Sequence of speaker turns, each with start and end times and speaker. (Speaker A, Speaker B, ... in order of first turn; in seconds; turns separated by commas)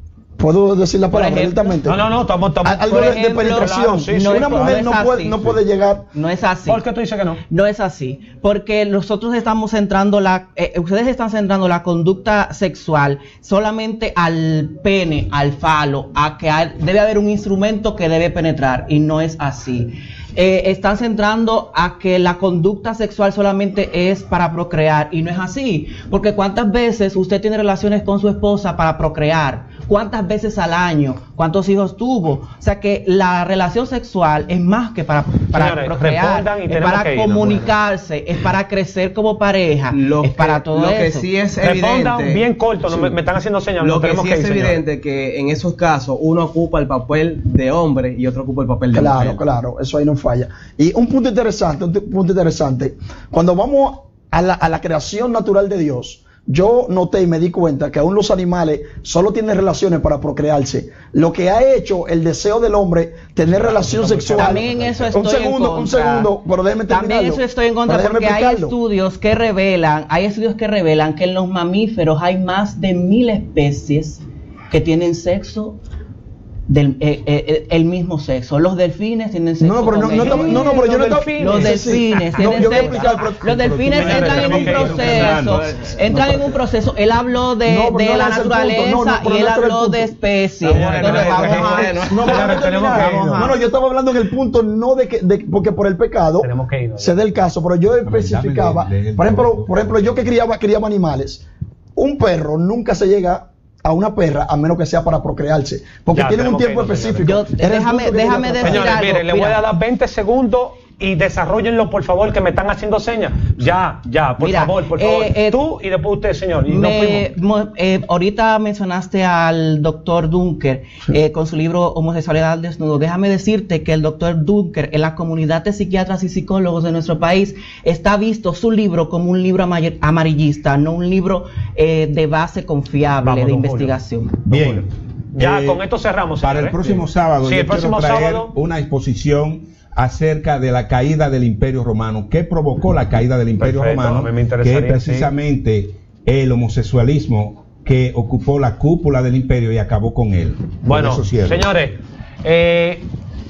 Speaker A: 0.4-2.0, Speaker B: 1.1-1.8, Speaker C: 1.8-4.9, Speaker A: 2.6-6.1, Speaker B: 2.9-5.5, Speaker B: 6.1-6.8, Speaker C: 6.7-7.4, Speaker B: 7.5-41.3, Speaker C: 35.5-37.7, Speaker D: 39.9-43.2, Speaker C: 41.6-44.8, Speaker D: 43.8-49.4, Speaker A: 48.9-68.8, Speaker C: 63.5-65.2, Speaker B: 64.3-66.3, Speaker B: 66.9-75.8, Speaker B: 76.7-93.6, Speaker A: 79.6-84.0, Speaker C: 80.1-83.1, Speaker E: 83.8-85.1, Speaker C: 83.8-85.4, Speaker D: 85.1-86.0, Speaker A: 86.0-86.5, Speaker A: 87.6-90.1, Speaker D: 90.6-92.7, Speaker C: 90.6-93.5, Speaker A: 92.1-101.4, Speaker C: 96.4-97.2, Speaker E: 98.0-100.3, Speaker A: 102.0-108.9, Speaker C: 106.1-107.4, Speaker B: 107.2-109.6, Speaker C: 108.6-117.3, Speaker B: 114.4-115.6, Speaker B: 116.7-134.6, Speaker C: 133.2-134.0, Speaker E: 134.5-135.8, Speaker C: 135.3-138.5, Speaker E: 136.4-151.7, Speaker C: 143.6-145.3, Speaker C: 150.8-153.0